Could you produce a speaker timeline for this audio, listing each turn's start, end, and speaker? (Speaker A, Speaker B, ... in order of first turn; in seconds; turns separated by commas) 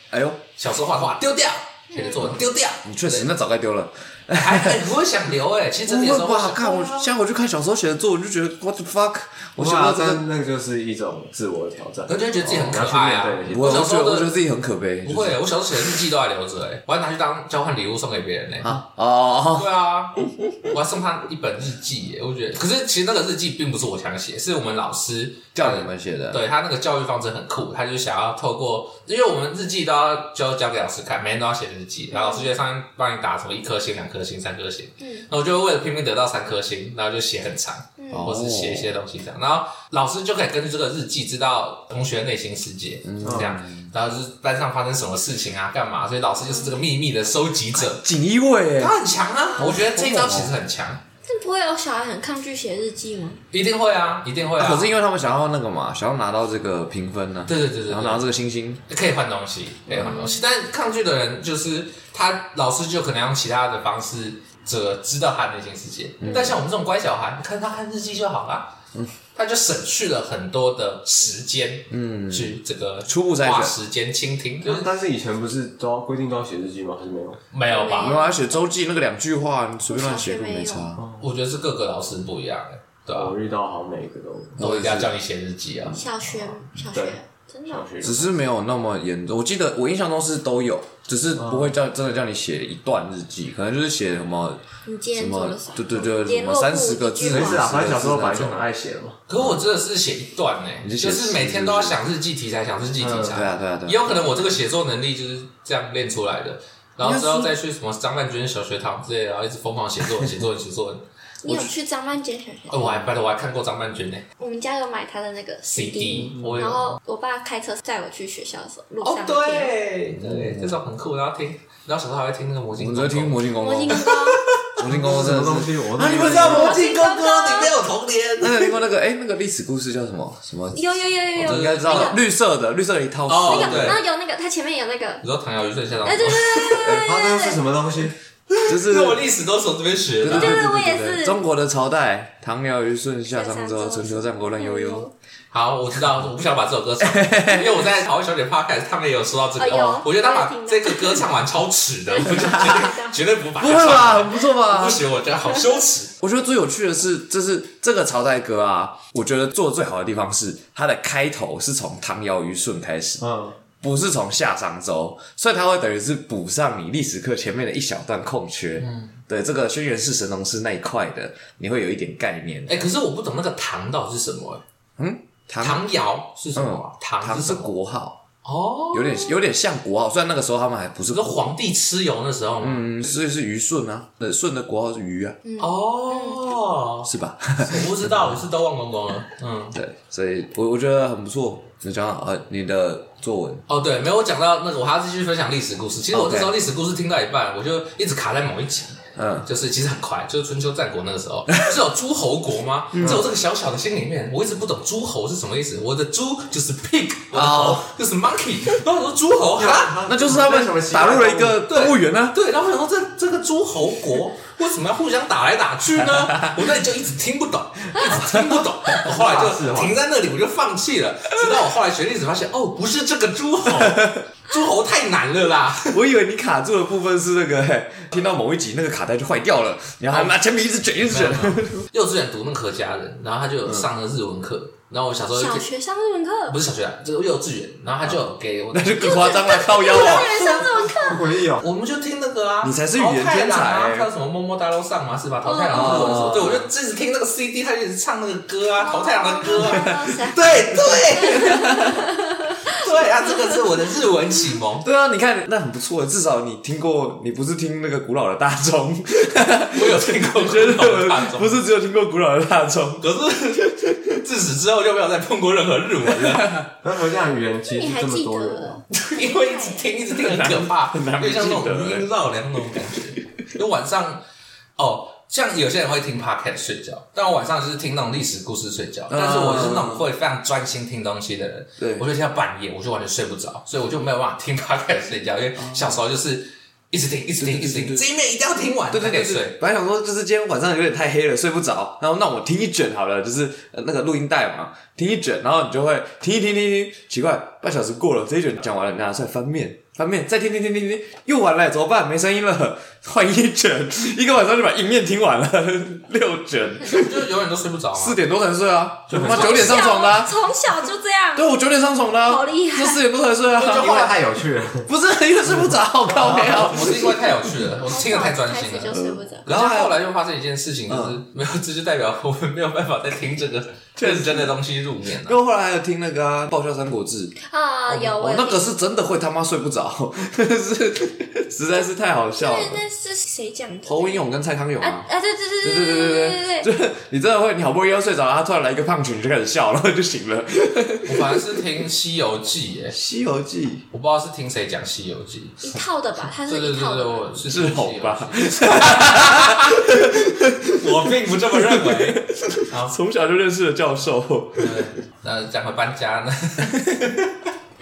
Speaker A: 0.1-0.4, Speaker B: 0.6-3.3, Speaker C: 1.9-2.4, Speaker A: 2.8-4.8, Speaker B: 4.3-7.1, Speaker A: 5.9-10.2, Speaker D: 9.6-13.7, Speaker B: 12.1-14.3, Speaker A: 12.4-12.8, Speaker A: 13.5-15.4, Speaker B: 15.1-18.8, Speaker A: 18.6-19.7, Speaker B: 19.6-48.0, Speaker A: 25.6-26.4, Speaker C: 32.1-32.5, Speaker C: 35.0-35.3, Speaker C: 38.0-38.3, Speaker A: 38.1-38.9, Speaker A: 43.0-43.9, Speaker D: 43.2-43.5, Speaker A: 47.8-49.0, Speaker B: 48.8-51.0, Speaker A: 49.6-50.5, Speaker C: 51.2-53.4, Speaker B: 53.5-54.9, Speaker A: 54.6-58.8, Speaker B: 57.5-58.2, Speaker B: 58.9-68.8, Speaker C: 59.9-60.5, Speaker A: 66.2-66.6, Speaker B: 69.3-74.9, Speaker A: 71.9-73.7, Speaker D: 74.6-77.4, Speaker B: 77.5-78.2, Speaker C: 77.7-78.6, Speaker A: 78.0-81.0, Speaker C: 79.9-80.9, Speaker D: 81.0-81.3, Speaker B: 81.2-83.3, Speaker D: 83.1-84.6, Speaker A: 84.6-85.1, Speaker B: 84.6-86.6, Speaker C: 85.9-87.9, Speaker D: 86.9-88.4, Speaker A: 88.0-94.6, Speaker D: 91.3-91.8, Speaker C: 94.8-97.7, Speaker A: 95.1-98.7, Speaker D: 97.3-99.2, Speaker B: 99.3-111.0, Speaker A: 99.3-99.6, Speaker A: 100.8-102.0, Speaker D: 103.0-103.4, Speaker A: 103.3-104.2, Speaker A: 107.0-107.5, Speaker C: 111.4-113.0, Speaker B: 112.7-114.3, Speaker C: 114.4-119.7, Speaker B: 115.7-117.0, Speaker B: 119.0-124.8, Speaker A: 120.2-120.8, Speaker A: 122.8-124.1, Speaker C: 123.6-124.4, Speaker A: 124.8-126.7, Speaker D: 124.8-126.8, Speaker B: 126.0-128.7, Speaker C: 126.1-127.7, Speaker A: 128.4-134.0, Speaker C: 130.7-132.2, Speaker B: 131.4-132.2, Speaker B: 133.3-134.0, Speaker C: 133.5-135.2, Speaker B: 135.2-136.6, Speaker C: 136.0-137.6, Speaker D: 136.7-138.1, Speaker B: 138.5-140.6, Speaker A: 138.6-139.2, Speaker A: 140.2-145.1, Speaker C: 140.2-141.4, Speaker C: 143.3-145.1, Speaker B: 145.5-156.1, Speaker A: 147.0-147.8, Speaker C: 149.6-151.3, Speaker C: 152.1-153.2, Speaker A: 152.3-152.9, Speaker A: 153.6-155.0, Speaker A: 156.2-163.2, Speaker D: 163.2-163.6, Speaker A: 163.8-172.9, Speaker B: 168.8-169.1, Speaker B: 172.7-174.6, Speaker A: 175.0-175.8, Speaker B: 175.6-177.7, Speaker A: 176.6-178.2, Speaker B: 178.4-179.3, Speaker A: 178.9-181.5, Speaker B: 181.1-182.9, Speaker A: 182.6-185.4, Speaker C: 185.4-186.4, Speaker B: 185.6-187.1, Speaker A: 187.0-188.4, Speaker B: 187.6-189.8, Speaker A: 189.7-193.7, Speaker B: 193.7-210.0, Speaker A: 196.1-196.5, Speaker A: 199.2-199.5, Speaker A: 202.9-203.2, Speaker D: 203.0-203.3, Speaker A: 207.3-207.9, Speaker D: 209.5-211.7, Speaker A: 210.1-212.4, Speaker B: 211.7-226.0, Speaker A: 216.0-216.5, Speaker A: 218.1-218.7, Speaker D: 219.0-220.0, Speaker A: 223.8-224.2, Speaker A: 225.9-231.8, Speaker B: 230.1-230.4, Speaker B: 231.1-235.7, Speaker C: 235.3-236.6, Speaker B: 236.5-251.8, Speaker A: 238.7-240.6, Speaker C: 238.9-241.4, Speaker D: 240.9-241.7, Speaker A: 242.6-244.1, Speaker C: 245.4-246.3, Speaker A: 245.7-246.7, Speaker C: 248.8-253.6, Speaker A: 249.5-250.1, Speaker A: 250.7-252.0, Speaker B: 252.7-254.9, Speaker A: 254.8-263.1, Speaker B: 259.7-261.6, Speaker B: 263.0-266.6, Speaker A: 263.6-264.1, Speaker A: 266.2-266.7, Speaker D: 266.8-268.8, Speaker C: 267.7-269.9, Speaker B: 268.9-274.2, Speaker A: 270.1-272.9, Speaker B: 274.8-289.6, Speaker A: 279.1-280.0, Speaker A: 281.8-282.1, Speaker A: 285.6-286.0, Speaker A: 287.4-288.1, Speaker A: 288.9-307.2, Speaker B: 306.8-308.2, Speaker A: 307.9-310.4, Speaker D: 309.1-309.7, Speaker B: 309.1-309.9, Speaker C: 309.2-311.5, Speaker A: 311.3-314.2, Speaker C: 312.2-313.0, Speaker D: 313.5-314.9, Speaker A: 314.9-317.1, Speaker D: 315.5-316.8, Speaker B: 316.2-325.4, Speaker C: 317.9-319.5, Speaker A: 318.9-320.0, Speaker A: 320.9-321.2, Speaker A: 324.0-324.5, Speaker A: 325.3-327.4, Speaker C: 327.4-328.7, Speaker A: 327.9-332.8, Speaker C: 332.4-334.3, Speaker A: 333.9-335.1, Speaker C: 334.8-336.7, Speaker A: 335.6-341.4, Speaker B: 341.1-343.0, Speaker A: 342.9-343.9, Speaker B: 343.9-345.7, Speaker C: 345.6-347.3, Speaker B: 346.4-353.0, Speaker A: 347.5-354.9, Speaker B: 354.6-357.2